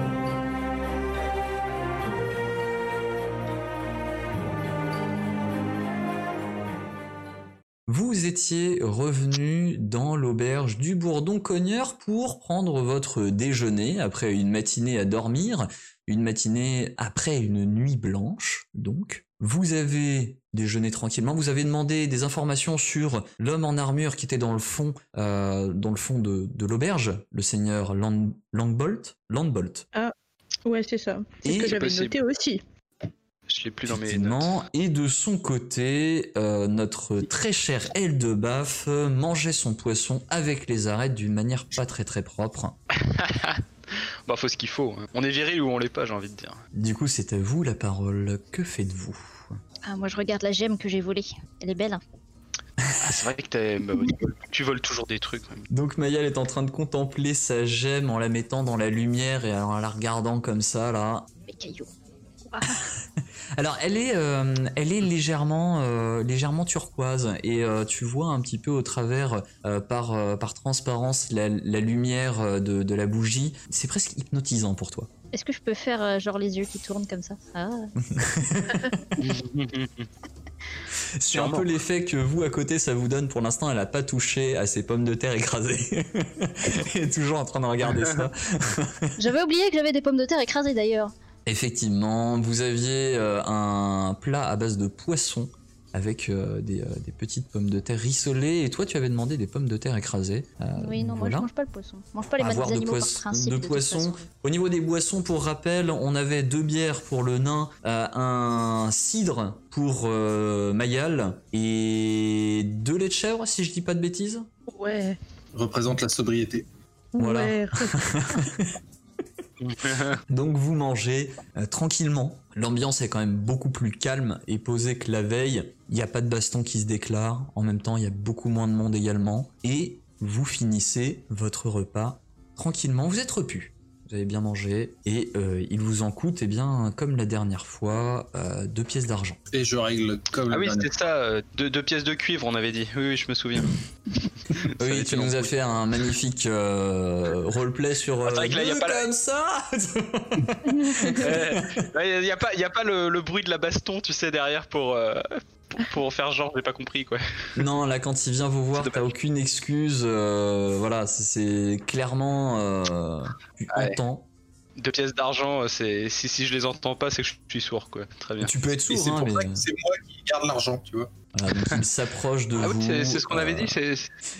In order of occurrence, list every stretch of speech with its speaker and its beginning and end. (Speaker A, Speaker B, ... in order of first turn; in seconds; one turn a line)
Speaker A: 7.9-29.9
Speaker B: 30.6-32.6
Speaker A: 31.4-31.8
Speaker C: 31.6-32.2
Speaker C: 33.5-34.5
Speaker A: 33.9-42.8
Speaker C: 43.0-46.6
Speaker A: 46.7-49.6
Speaker D: 49.8-52.0
Speaker C: 53.0-55.7
Speaker A: 55.7-61.3
Speaker D: 61.5-61.9
Speaker D: 62.5-62.8
Speaker A: 63.5-75.1
Speaker D: 75.3-77.9
Speaker A: 78.0-79.1
Speaker C: 79.2-80.1
Speaker A: 81.2-89.2
Speaker C: 81.3-81.7
Speaker C: 87.9-88.2
Speaker D: 89.2-91.1
Speaker A: 91.5-101.5
Speaker D: 100.8-104.2
Speaker A: 102.4-114.5
Speaker B: 114.7-115.2
Speaker E: 115.5-116.7
Speaker B: 117.1-118.4
Speaker A: 117.2-118.8
Speaker C: 119.6-120.2
Speaker A: 120.3-139.4
Speaker E: 139.5-140.9
Speaker C: 140.5-143.8
Speaker C: 144.5-145.5
Speaker A: 144.8-151.8
Speaker C: 148.2-149.1
Speaker B: 150.8-151.2
Speaker C: 151.2-157.6
Speaker A: 157.6-164.3
Speaker C: 158.8-159.1
Speaker C: 163.7-164.0
Speaker C: 164.8-168.6
Speaker A: 168.4-169.6
Speaker E: 168.7-171.1
Speaker A: 171.3-173.8
Speaker C: 171.5-171.8
Speaker C: 172.6-174.1